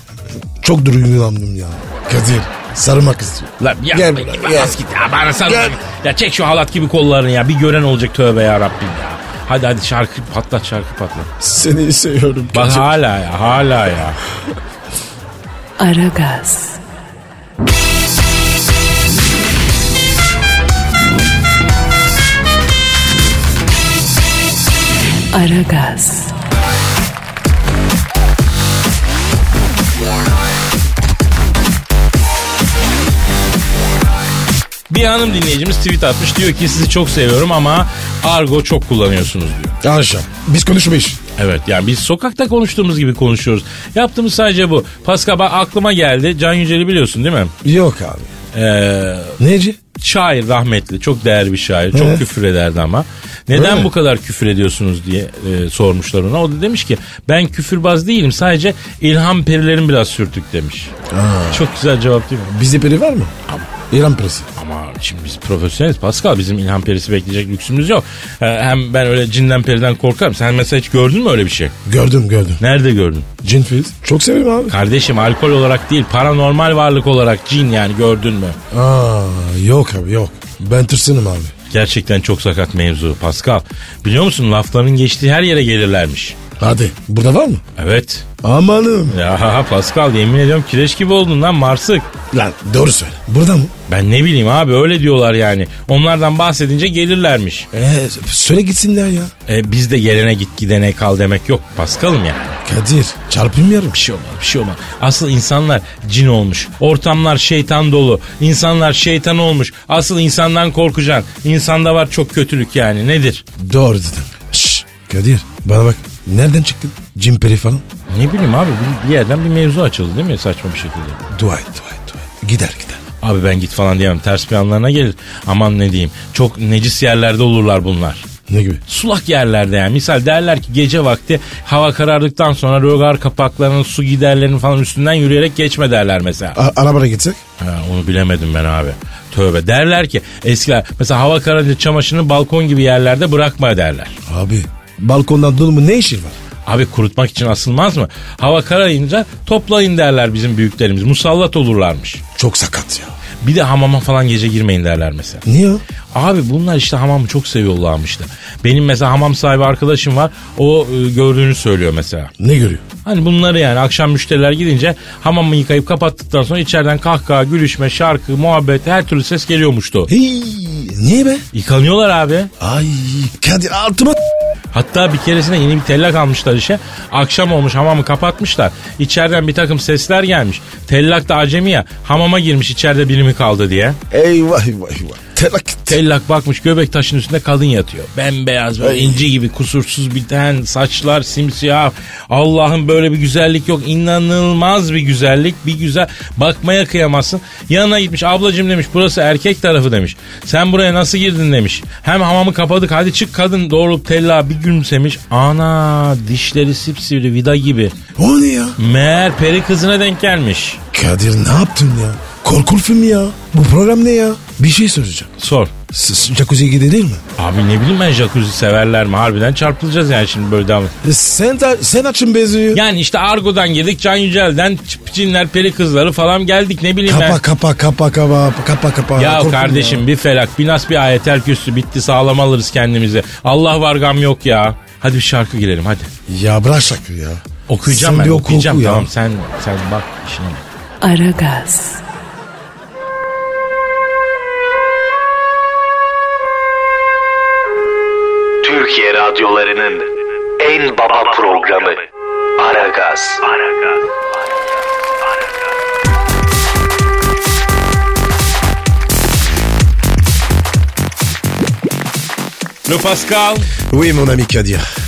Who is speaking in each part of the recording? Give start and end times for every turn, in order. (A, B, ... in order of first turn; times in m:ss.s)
0:00.6-0:04.8 A
0:03.6-0:11.3 B
0:05.4-0:05.8 A
0:11.4-0:12.9 A
0:12.5-0:14.2 B
0:15.8-0:16.8 C
0:25.3-0:26.3 C
0:34.9-0:39.8 B
0:39.8-0:41.2 A
0:41.4-0:47.5 B
0:47.6-0:48.3 A
0:48.5-0:49.4 B
0:49.4-0:49.8 A
0:50.0-1:00.9 B
0:51.9-0:52.2 A
0:53.5-0:53.9 A
1:01.1-1:01.7 A
1:01.5-1:02.5 B
1:02.5-1:03.3 A
1:03.9-1:04.5 A
1:04.6-1:11.7 B
1:11.8-1:12.6 A
1:12.6-1:13.3 B
1:13.4-1:14.8 A
1:14.7-1:18.6 B
1:18.7-1:21.5 A
1:21.7-1:26.4 B
1:26.6-1:27.6 A
1:27.8-1:28.2 B
1:28.4-1:29.2 A
1:29.1-1:32.1 B
1:32.3-1:33.7 A
1:33.9-1:37.7 B
1:37.7-1:39.3 A
1:39.5-1:42.6 B
1:42.6-1:44.0 A
1:43.9-1:53.4 B
1:53.6-1:57.8 A
1:58.1-2:01.2 B
2:01.3-2:03.0 A
2:03.2-2:08.2 B
2:08.5-2:08.8 A
2:08.9-2:16.6 B
2:16.5-2:17.4 A
2:17.6-2:24.2 B
2:24.3-2:26.4 A
2:26.6-2:32.2 B
2:32.3-2:33.1 A
2:33.4-2:35.4 B
2:35.4-2:35.8 A
2:36.1-2:42.3 B
2:42.4-2:42.8 A
2:43.0-2:50.1 B
2:50.1-2:51.4 A
2:51.5-2:52.5 B
2:52.6-2:54.2 A
2:54.7-3:04.0 B
3:04.1-3:06.0 A
3:05.8-3:27.9 B
3:08.8-3:09.2 A
3:28.2-3:28.8 A
3:28.8-3:30.8 B
3:30.9-3:35.3 A
3:35.4-3:35.7 B
3:35.9-3:37.2 A
3:37.4-3:40.9 B
3:41.0-3:42.8 A
3:42.7-3:47.4 B
3:47.0-3:50.0 A
3:49.2-3:56.1 B
3:56.3-3:59.1 A
3:57.7-4:00.6 B
4:01.0-4:02.0 C
4:08.6-4:10.1 D
4:10.6-4:12.0 D
4:12.6-4:13.9 D
4:22.8-4:23.7 B
4:23.9-4:24.8 A